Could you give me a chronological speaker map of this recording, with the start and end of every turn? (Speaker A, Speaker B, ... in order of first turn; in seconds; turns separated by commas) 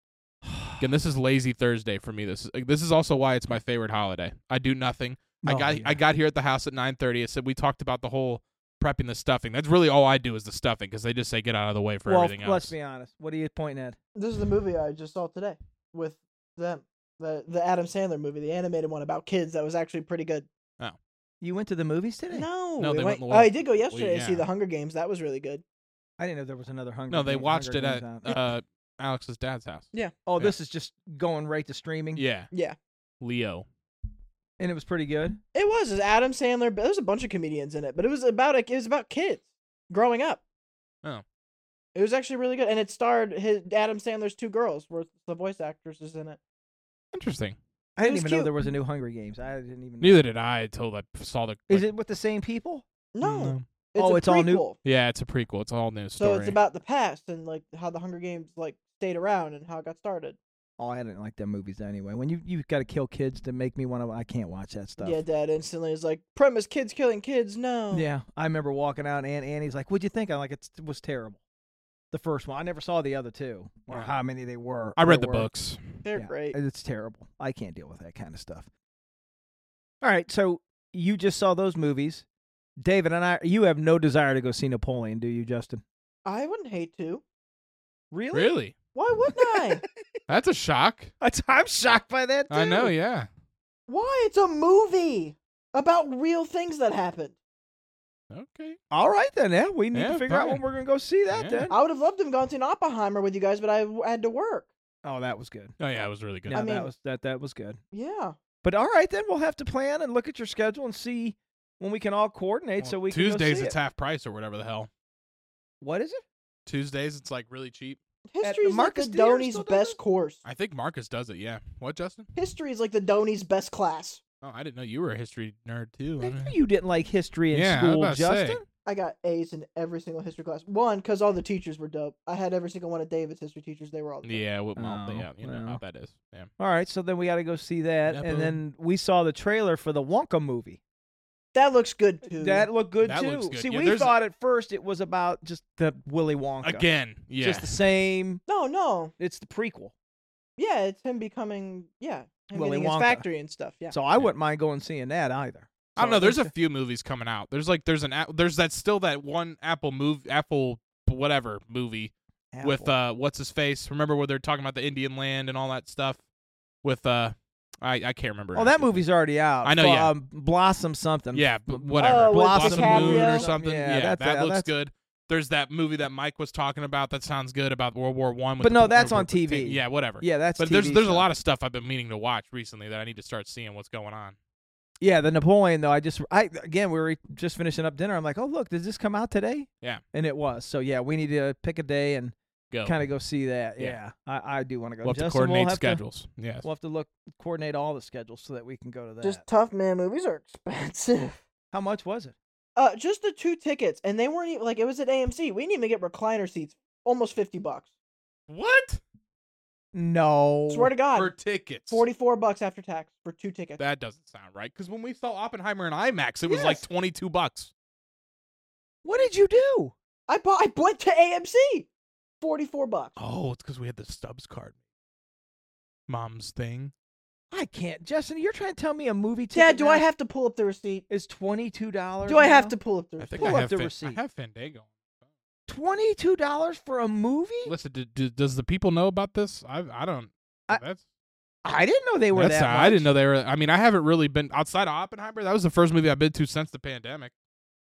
Speaker A: 0.5-0.8, Speaker B: 0.8-12.7, Speaker A: 5.4-6.0, Speaker A: 12.1-14.0, Speaker C: 14.2-20.5, Speaker A: 21.4-22.4, Speaker C: 22.3-25.6, Speaker B: 22.8-24.4, Speaker A: 26.2-28.4, Speaker B: 27.1-29.9, Speaker A: 30.2-32.2, Speaker B: 32.1-32.5, Speaker B: 33.2-33.6, Speaker A: 34.6-35.4, Speaker C: 35.5-40.4, Speaker C: 41.9-46.4, Speaker B: 47.1-47.6, Speaker A: 48.0-50.2, Speaker C: 48.0-48.5, Speaker B: 50.0-51.9, Speaker A: 51.7-52.8, Speaker C: 53.1-54.8, Speaker B: 53.2-53.6, Speaker A: 54.0-54.6, Speaker B: 54.8-56.6, Speaker C: 56.2-60.4, Speaker A: 60.8-65.2, Speaker C: 65.0-68.1, Speaker A: 67.9-71.4, Speaker A: 72.1-75.5, Speaker B: 75.0-76.0, Speaker C: 76.0-76.5, Speaker A: 76.1-78.7, Speaker A: 80.0-82.2, Speaker A: 82.8-85.8, Speaker C: 86.2-87.2, Speaker A: 88.1-88.5, Speaker B: 88.3-88.8, Speaker C: 88.9-89.8, Speaker A: 89.3-90.0, Speaker B: 90.3-91.1, Speaker A: 91.2-92.9, Speaker B: 92.5-93.3, Speaker C: 93.9-97.3, Speaker B: 98.3-98.8, Speaker A: 98.9-101.8, Speaker B: 99.9-100.6, Speaker B: 101.3-101.7, Speaker C: 101.7-104.7, Speaker A: 105.0-105.7, Speaker B: 105.8-106.6, Speaker A: 106.5-107.8, Speaker C: 106.5-106.9, Speaker C: 107.9-108.3, Speaker A: 108.6-113.8, Speaker B: 112.8-114.9, Speaker A: 115.8-116.2, Speaker B: 116.7-118.0, Speaker C: 118.3-120.4, Speaker A: 118.4-120.0, Speaker B: 120.4-122.3, Speaker C: 122.3-124.2, Speaker B: 124.4-126.5, Speaker A: 126.2-128.6, Speaker B: 127.5-128.6, Speaker C: 128.8-134.4, Speaker B: 134.2-136.5, Speaker A: 134.8-135.8, Speaker A: 136.6-140.8, Speaker B: 138.1-138.6, Speaker C: 141.5-142.7, Speaker A: 142.2-146.8, Speaker B: 143.0-144.1, Speaker B: 146.6-147.7, Speaker A: 147.4-148.4, Speaker C: 148.5-149.1, Speaker A: 149.2-149.9, Speaker C: 150.6-153.9, Speaker A: 152.5-153.2, Speaker A: 153.9-156.5, Speaker B: 155.9-162.1, Speaker A: 162.5-162.9, Speaker B: 162.6-166.2, Speaker B: 166.8-169.0, Speaker A: 168.5-174.7, Speaker B: 169.6-170.1, Speaker B: 171.3-184.3, Speaker C: 172.0-173.5, Speaker A: 178.6-181.3, Speaker A: 185.0-196.0, Speaker B: 192.7-192.9, Speaker B: 195.0-196.7, Speaker A: 196.6-199.4, Speaker C: 199.2-201.4, Speaker A: 201.7-202.3, Speaker C: 202.8-207.9, Speaker B: 208.5-209.0, Speaker A: 209.9-210.9, Speaker C: 210.7-211.3, Speaker B: 211.1-212.0, Speaker C: 211.9-213.8, Speaker B: 213.8-217.7, Speaker C: 216.4-216.8, Speaker A: 219.0-219.9, Speaker C: 220.3-221.9, Speaker C: 222.4-223.2, Speaker B: 223.2-224.7, Speaker B: 226.1-226.9, Speaker A: 227.5-230.0, Speaker C: 229.5-231.1, Speaker A: 231.1-232.7, Speaker C: 232.2-233.6, Speaker B: 233.2-234.9, Speaker A: 233.4-234.2, Speaker A: 235.7-237.7, Speaker B: 237.7-241.0, Speaker A: 241.6-243.1, Speaker B: 242.3-247.3